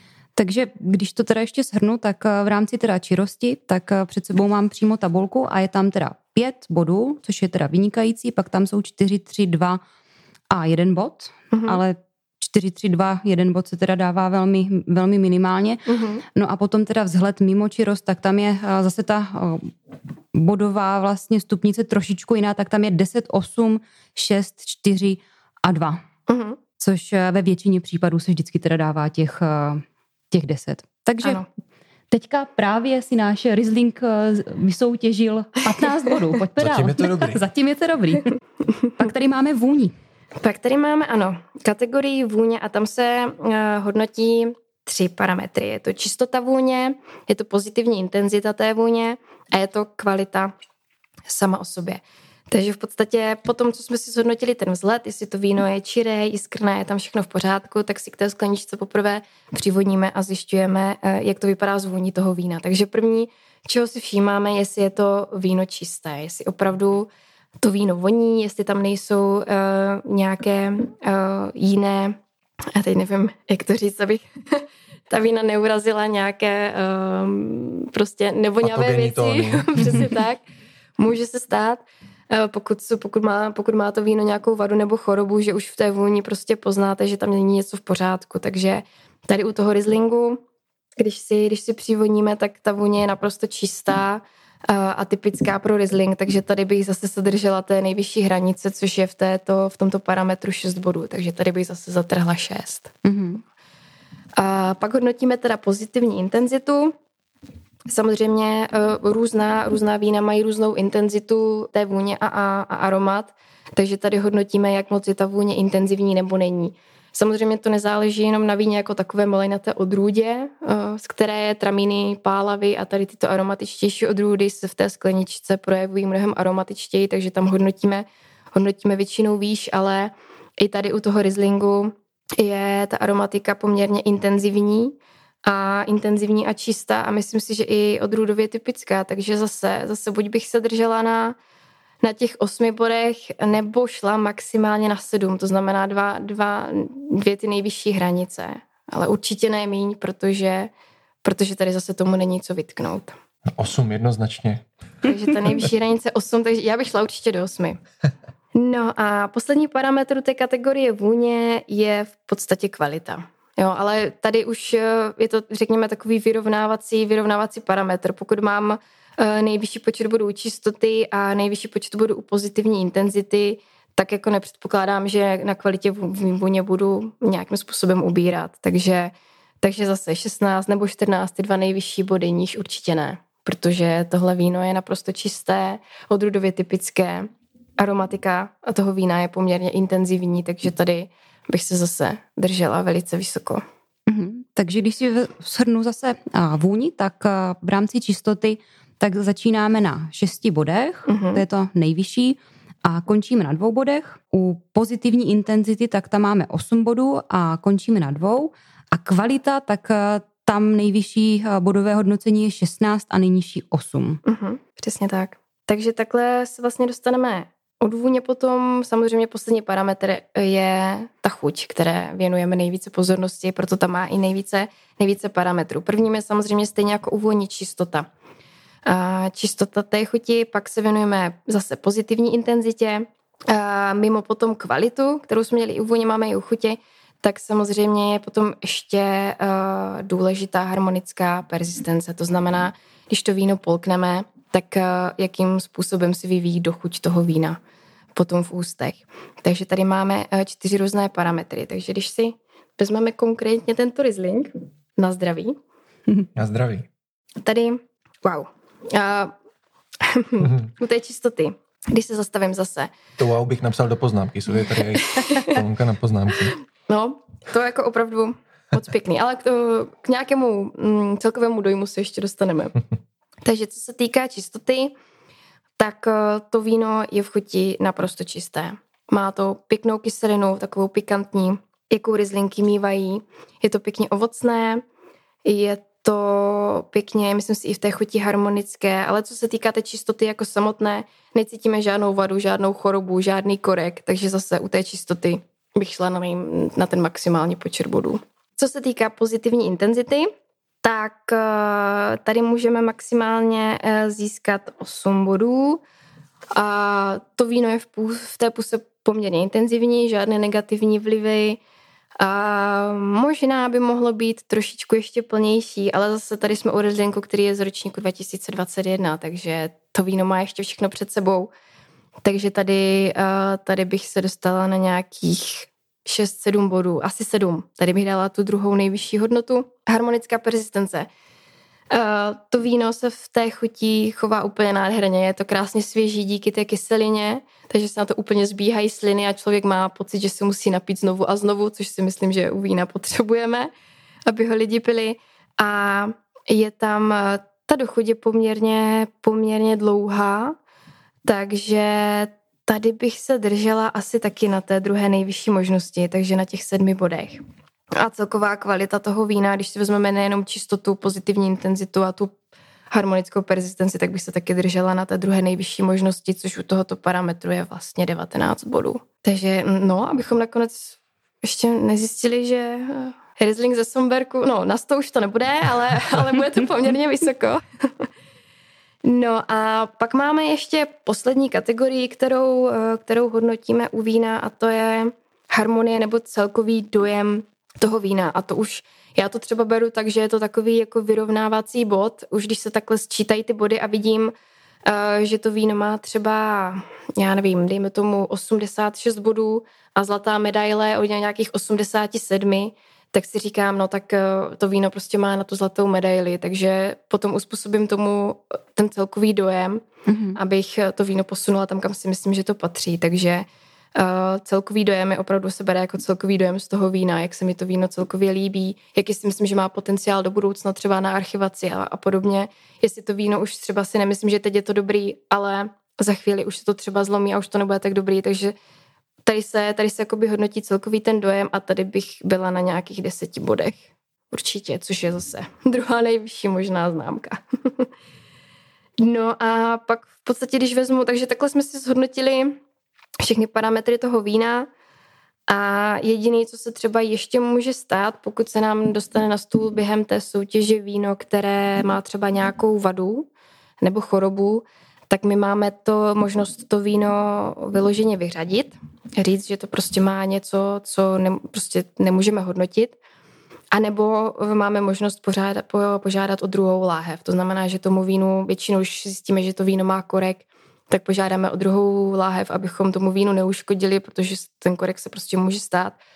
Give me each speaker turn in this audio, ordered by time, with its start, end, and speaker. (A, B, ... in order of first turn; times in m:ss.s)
0:00.4-0:09.8 A
0:10.5-0:19.7 A
0:11.5-0:11.8 B
0:15.9-0:16.2 B
0:20.3-0:26.0 A
0:26.3-0:26.6 B
0:26.8-0:31.4 A
0:32.1-0:38.3 A
0:36.6-0:37.4 C
0:39.0-0:39.9 A
0:40.4-0:50.5 B
0:51.3-1:07.1 B
1:07.6-1:12.2 B
1:12.7-1:20.4 B
1:18.6-1:20.1 C
1:21.0-1:30.4 B
1:31.0-1:42.9 B
1:43.0-1:43.4 A
1:44.4-1:46.9 B
1:47.9-2:21.4 B
2:22.0-2:30.7 B
2:31.2-2:33.1 B
2:33.5-2:34.6 C
2:35.0-2:37.8 B
2:38.5-3:13.6 B
3:14.1-3:34.2 A
3:21.1-3:21.4 B
3:34.2-3:48.1 B
3:48.8-4:07.6 B
4:08.1-4:15.6 B
4:16.4-4:16.9 C
4:17.4-4:19.3 B
4:20.0-4:22.9 B
4:23.2-4:26.5 C
4:25.1-4:25.6 B
4:26.9-4:32.8 B
4:33.4-4:34.9 B
4:35.8-4:44.8 B
4:45.4-5:00.3 B
5:00.8-5:05.8 B
5:06.5-5:11.6 B
5:12.2-5:21.5 B
5:22.2-5:31.1 B
5:31.9-5:43.7 B
5:44.3-5:50.6 B
5:51.2-5:57.4 B
5:58.0-6:02.3 B
6:02.9-6:18.1 B
6:19.0-6:34.3 B
6:34.8-6:49.8 B
6:50.1-6:50.4 A
6:50.4-7:08.5 B
7:09.2-7:17.9 B
7:19.0-7:22.6 B
7:23.2-7:24.7 B
7:25.5-7:33.3 B
7:33.8-7:43.0 B
7:43.7-7:56.0 B